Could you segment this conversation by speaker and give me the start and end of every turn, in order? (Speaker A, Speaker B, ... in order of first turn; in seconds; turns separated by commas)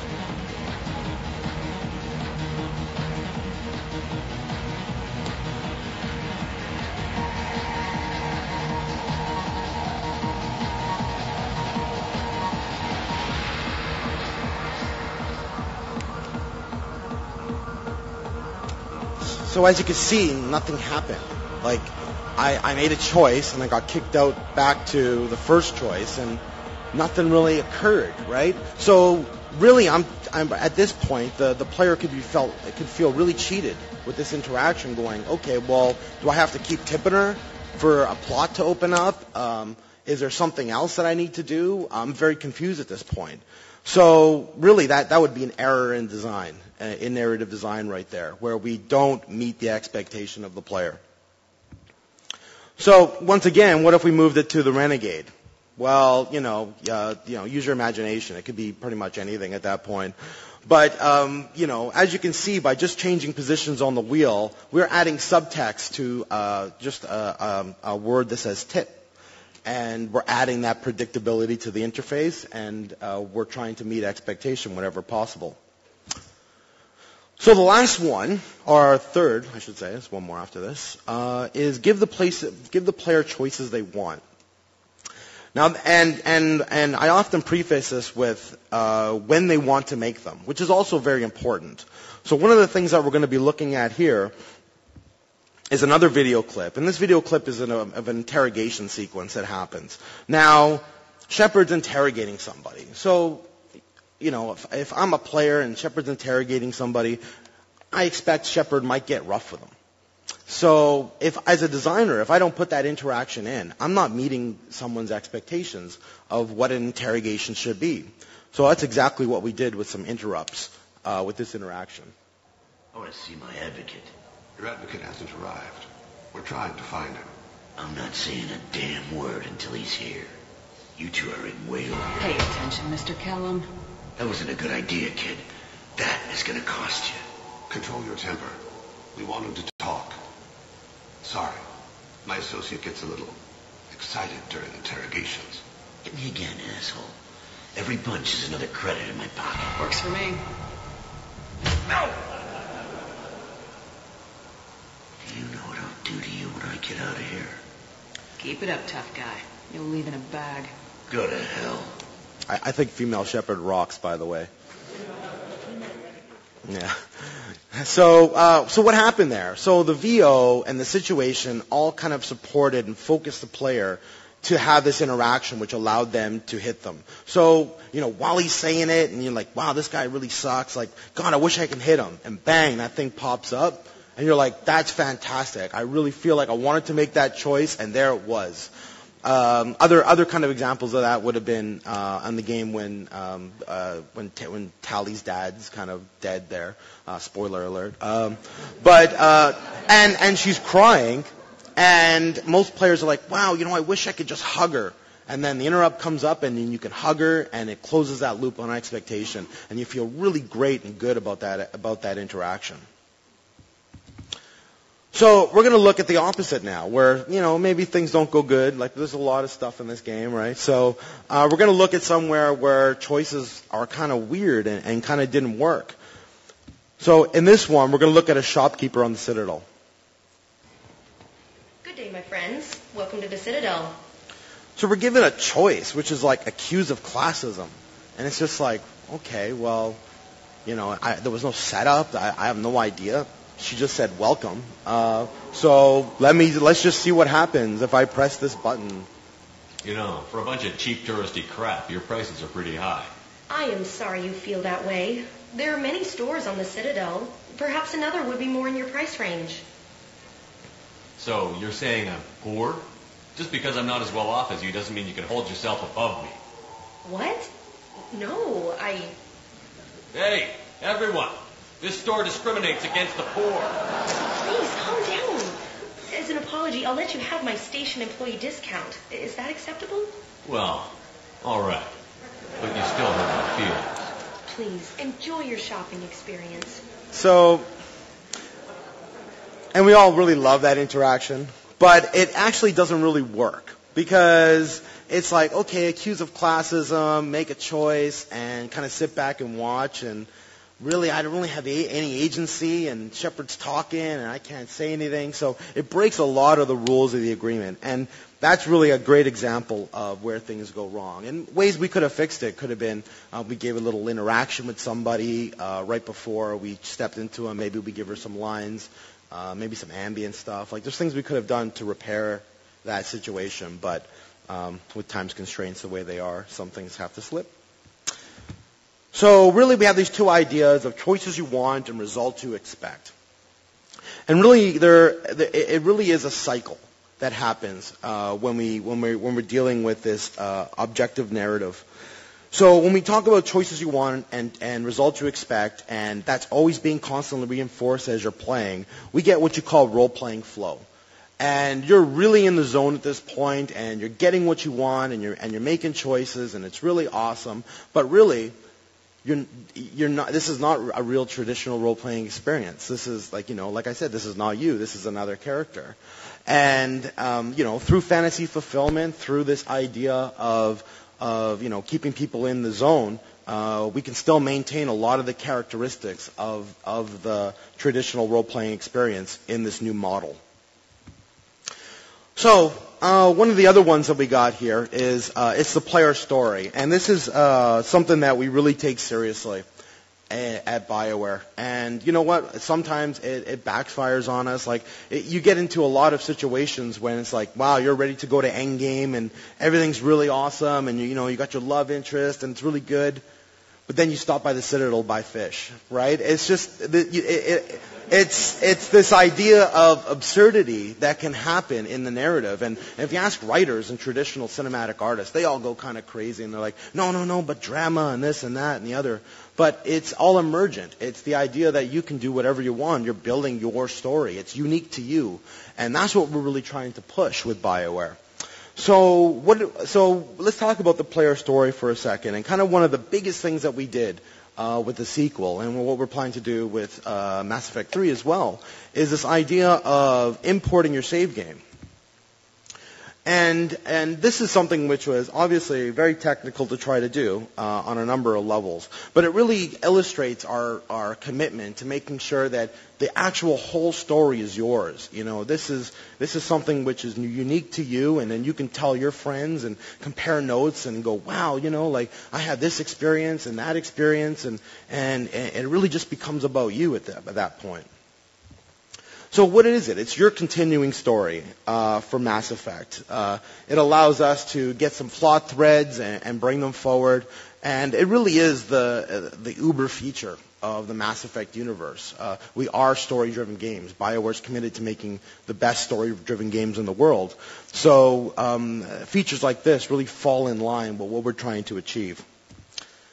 Speaker A: 19.2-26.4, Speaker A: 26.9-51.0, Speaker A: 52.8-60.1, Speaker A: 60.6-69.0, Speaker A: 69.6-75.6, Speaker A: 77.4-84.2, Speaker A: 85.5-94.3, Speaker A: 95.7-103.5, Speaker A: 104.2-107.2, Speaker A: 107.9-109.7, Speaker A: 110.5-122.1, Speaker B: 122.9-124.1, Speaker C: 124.6-127.3, Speaker B: 127.8-130.3, Speaker B: 130.9-132.4, Speaker D: 132.2-133.7, Speaker B: 134.2-135.4, Speaker B: 135.9-137.2, Speaker C: 137.7-138.6, Speaker C: 139.1-140.2, Speaker C: 141.2-141.6, Speaker C: 142.2-143.3, Speaker C: 143.9-145.6, Speaker B: 146.0-147.1, Speaker B: 147.7-149.8, Speaker D: 149.8-150.4, Speaker B: 155.2-157.6, Speaker D: 158.4-160.7, Speaker B: 161.1-161.9, Speaker A: 162.5-164.5, Speaker A: 166.6-167.0, Speaker A: 167.7-188.7, Speaker A: 189.2-212.8, Speaker A: 215.1-226.0, Speaker A: 227.0-229.7, Speaker E: 231.8-234.0, Speaker A: 234.8-240.0, Speaker A: 240.6-249.1, Speaker F: 249.8-253.1, Speaker E: 253.5-259.6, Speaker F: 261.2-266.4, Speaker E: 267.0-267.5, Speaker E: 268.1-269.1, Speaker F: 270.1-273.8, Speaker E: 274.4-280.1, Speaker F: 280.4-281.9, Speaker F: 282.6-284.1, Speaker E: 284.5-286.8, Speaker A: 287.1-287.7, Speaker A: 289.7-300.3, Speaker A: 300.8-327.5, Speaker A: 329.1-333.1, Speaker A: 334.3-341.8, Speaker A: 342.5-350.8, Speaker A: 351.4-358.5, Speaker A: 359.2-380.4, Speaker A: 382.4-389.6, Speaker A: 390.3-403.2, Speaker A: 403.9-428.2, Speaker A: 428.8-441.6, Speaker A: 443.2-467.9, Speaker A: 469.3-492.2